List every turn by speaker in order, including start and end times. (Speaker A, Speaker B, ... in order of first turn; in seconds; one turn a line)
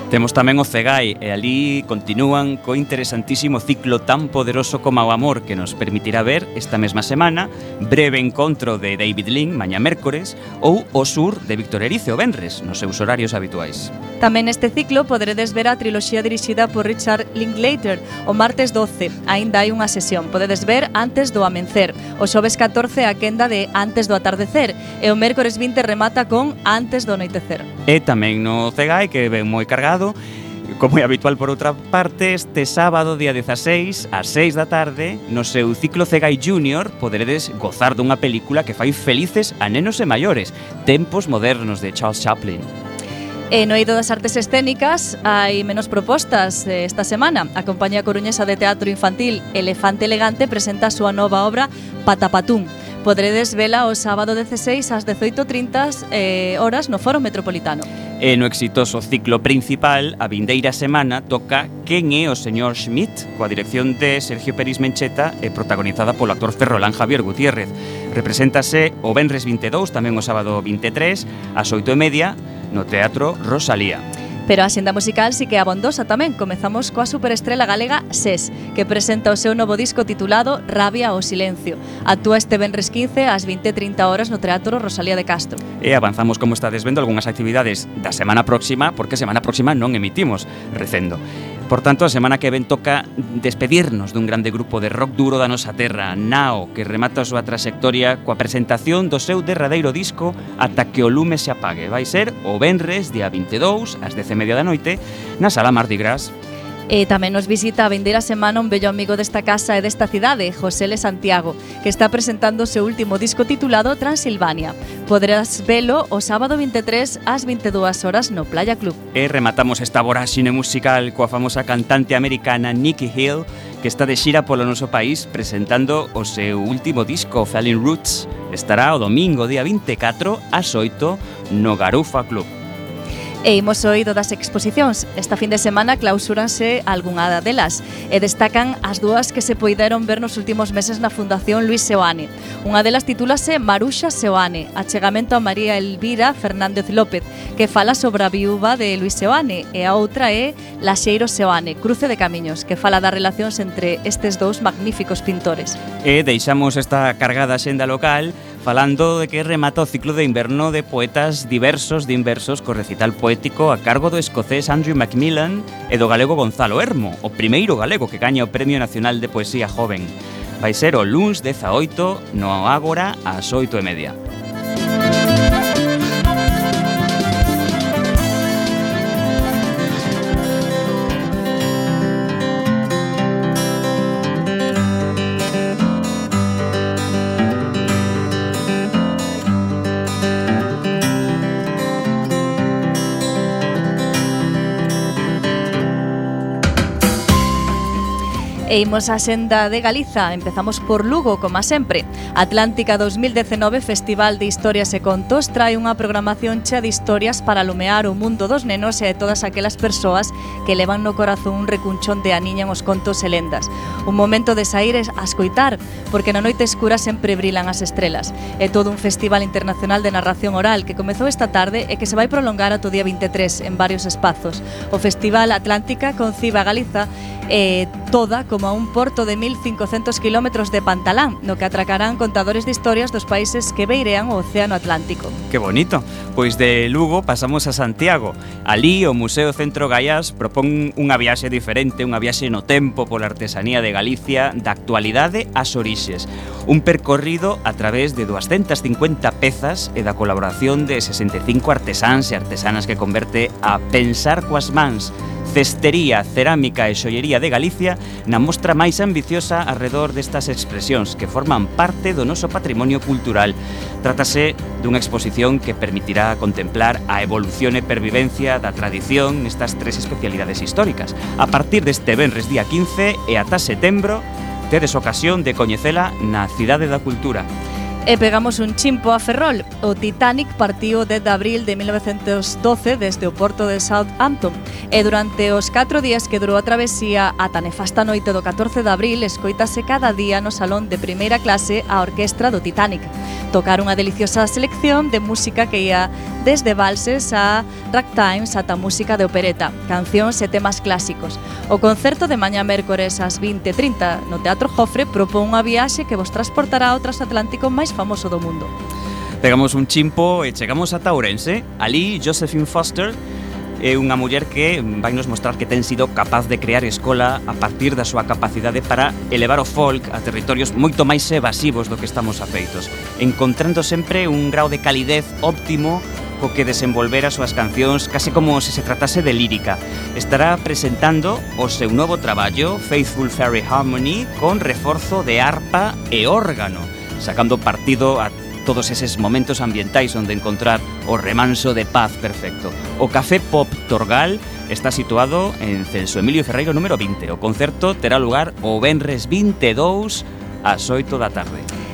Speaker A: 0.1-13.9
Speaker B: 14.2-27.7
Speaker A: 27.9-42.7
Speaker B: 43.5-57.9
Speaker A: 58.2-74.0
Speaker B: 74.5-85.6
Speaker A: 85.8-106.3
Speaker B: 106.9-119.0
Speaker A: 119.1-132.5
Speaker B: 133.4-155.8
Speaker A: 156.0-174.2
Speaker B: 198.7-235.3
Speaker A: 235.5-277.5
Speaker B: 278.1-308.7
Speaker A: 309.4-313.2
Speaker A: 313.8-351.7